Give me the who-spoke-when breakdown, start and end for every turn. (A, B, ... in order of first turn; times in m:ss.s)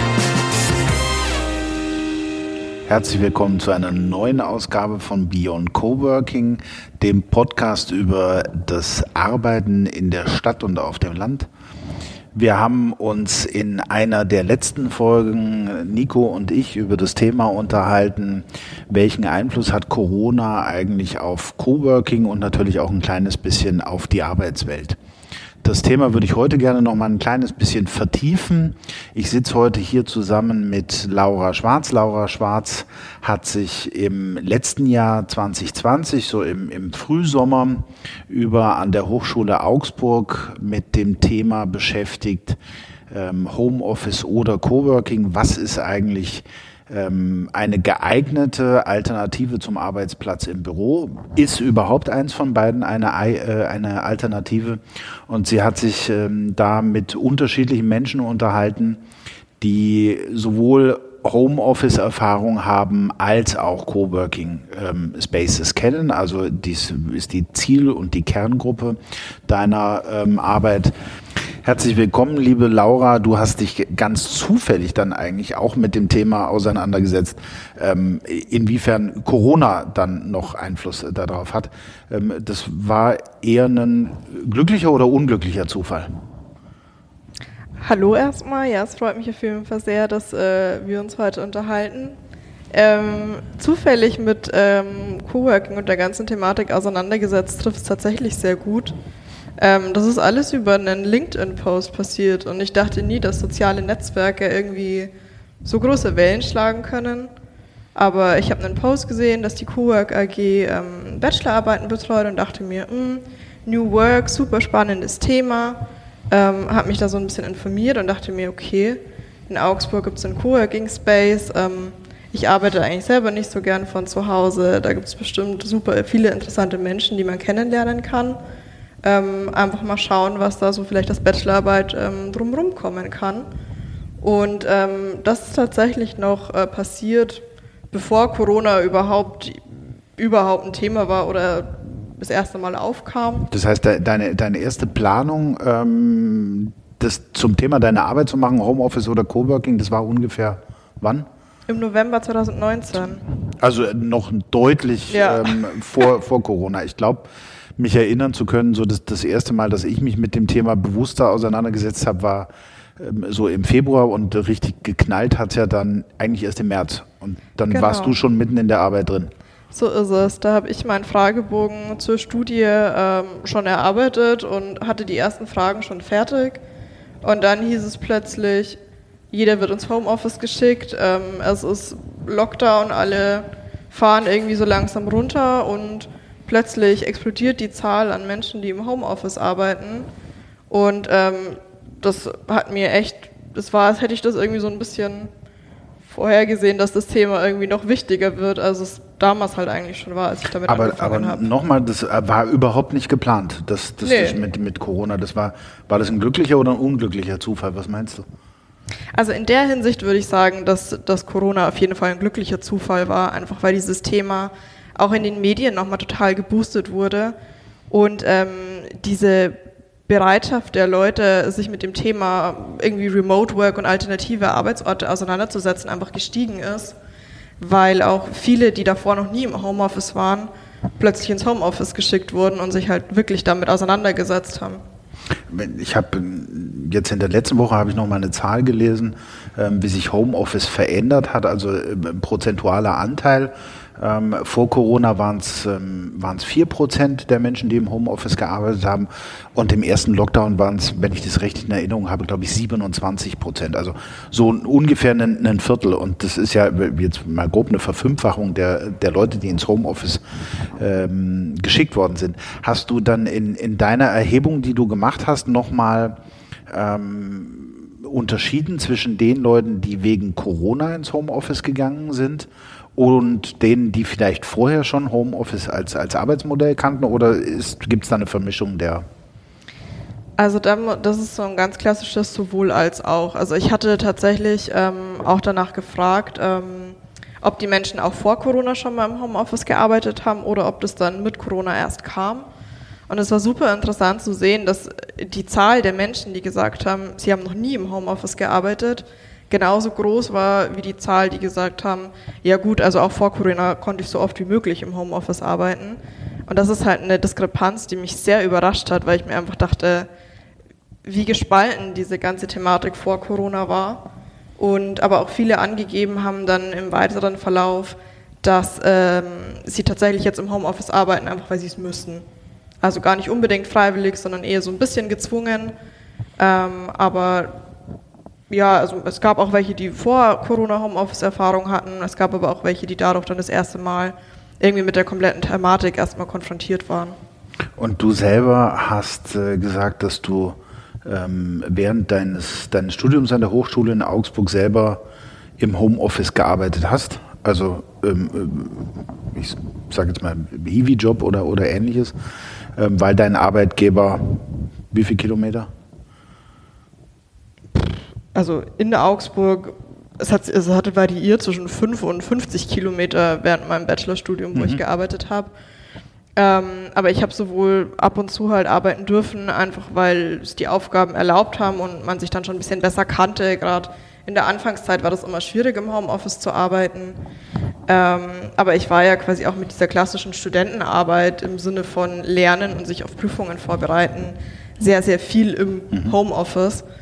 0:02.9-0:11.5 A
0:12.3-0:25.0 A
0:25.6-0:42.6 A
0:43.1-0:59.0 A
0:59.6-1:10.9 A
1:11.6-1:26.1 A
1:27.8-1:32.2 B
1:32.7-1:38.9 B
1:39.6-1:45.1 B
1:45.6-1:47.3 B
1:48.0-2:08.4 B
2:09.0-2:13.5 B
2:14.2-2:19.6 B
2:20.2-2:23.5 B
2:23.5-2:31.3 A
2:31.7-2:33.2 B
2:33.5-2:49.3 A
2:35.1-2:35.8 B
2:47.7-2:48.2 B
2:49.7-2:56.6 B
2:57.2-2:58.8 B
2:59.3-3:10.1 B
3:10.7-3:15.3 B
3:16.1-3:21.5 B
3:20.7-3:28.3 A
3:24.0-3:24.4 B
3:29.2-3:37.4 B
3:37.9-3:47.0 B
3:47.6-3:54.8 B
3:55.5-4:20.2 A
4:20.8-4:26.2 A
4:26.7-4:39.1 A
4:40.4-4:52.5 B
4:53.1-5:10.1 B
5:11.0-5:14.1 B
5:14.6-5:22.2 B
5:22.8-5:25.7 B
5:26.4-5:27.6 B
5:28.5-5:37.2 B
5:37.8-5:45.0 A
5:45.6-5:52.2 A
5:52.8-5:55.7 A
5:57.8-6:05.5 B
6:04.5-6:04.8 A
6:06.4-6:17.2 B
6:17.9-6:26.8 B